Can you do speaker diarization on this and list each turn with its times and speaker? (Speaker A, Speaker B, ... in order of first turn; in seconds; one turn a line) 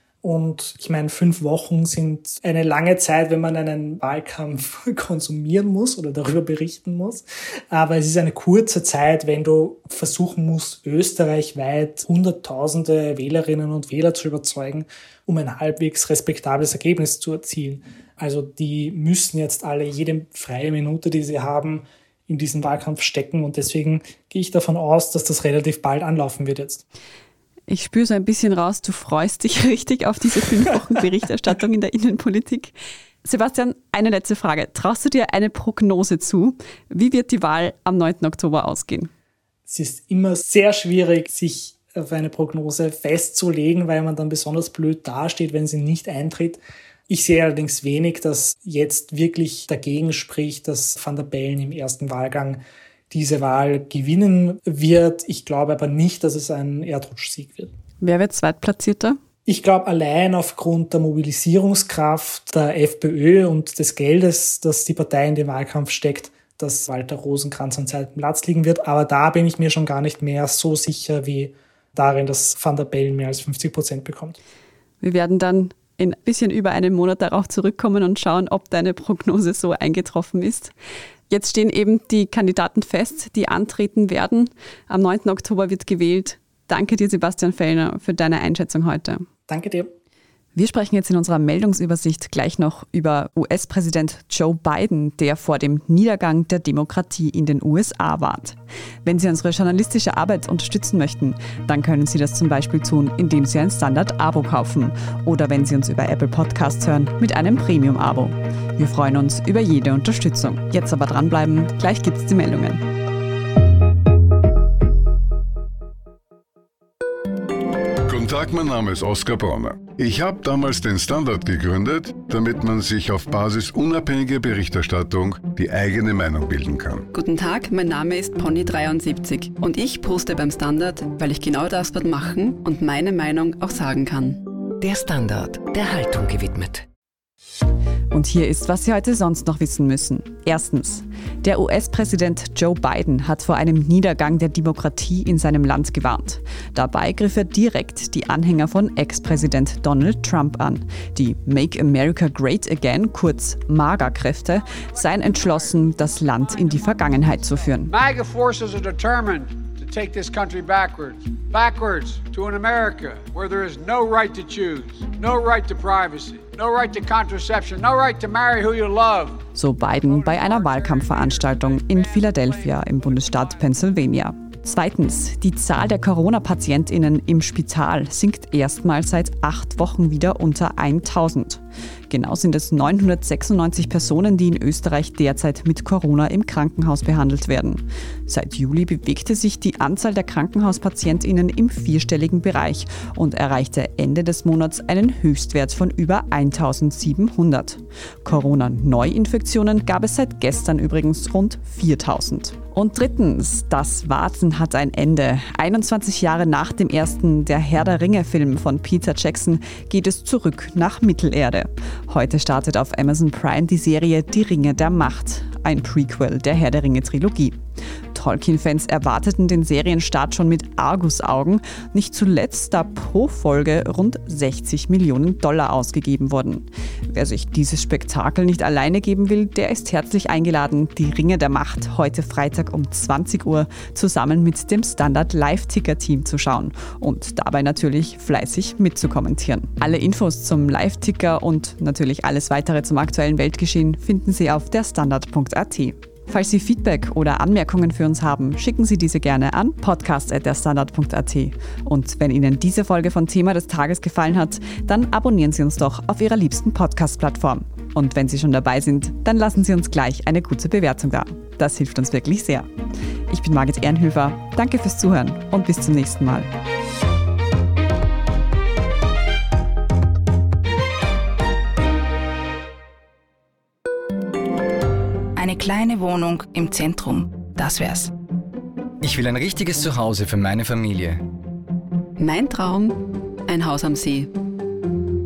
Speaker A: 0.2-26.8
Speaker B: 27.7-39.1
Speaker A: 39.7-57.7
Speaker B: 58.0-59.2
Speaker A: 59.5-74.4
Speaker B: 75.0-80.7
Speaker B: 81.3-89.3
Speaker A: 89.5-89.9
Speaker B: 90.5-112.8
Speaker C: 118.1-127.1
Speaker D: 127.1-134.5
Speaker E: 134.8-136.9
Speaker B: 138.1-157.9
Speaker F: 157.9-169.4
Speaker B: 169.6-217.6
Speaker F: 170.0-173.6
Speaker B: 218.1-262.7
Speaker B: 263.3-266.5
Speaker G: 275.4-278.1
Speaker H: 279.0-281.2
Speaker D: 282.2-284.3